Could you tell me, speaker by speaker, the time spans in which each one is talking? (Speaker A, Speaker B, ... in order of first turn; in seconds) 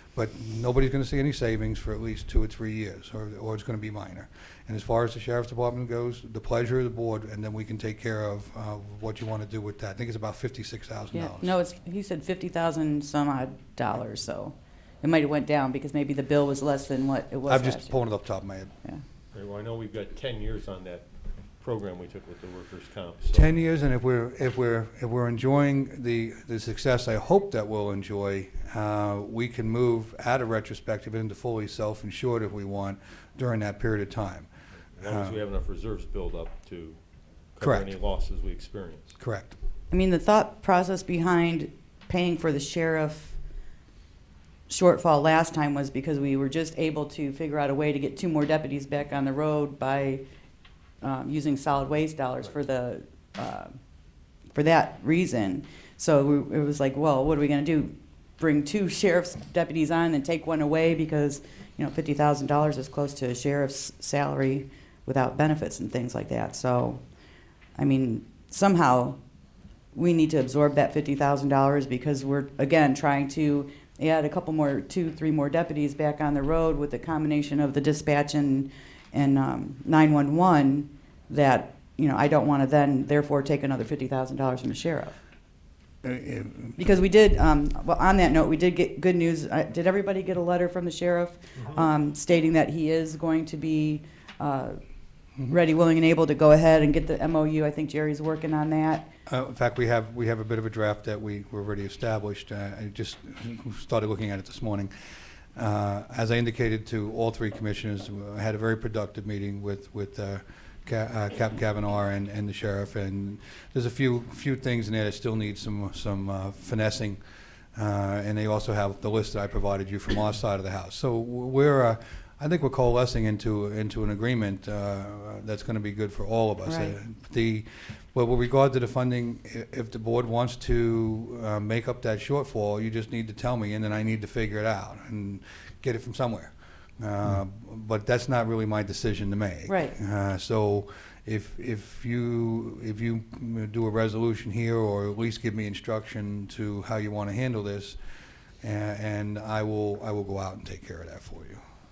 Speaker A: 0.1-11.6, 17.5-18.7, 23.3-34.5, 35.0-35.4, 37.6-37.9, 39.2-39.5, 86.0-86.8, 99.3-104.9, 105.5-117.2, 117.7-148.0, 148.6-151.6
Speaker B: 11.1-18.0, 39.9-43.4, 44.7-50.2, 51.0-53.7, 54.5-67.0, 67.8-69.2, 69.9-85.2, 86.8-94.8, 95.5-99.1, 126.7-126.9, 139.7-140.0
Speaker C: 19.3-21.1, 21.6-23.5, 35.0-37.0, 37.5-39.1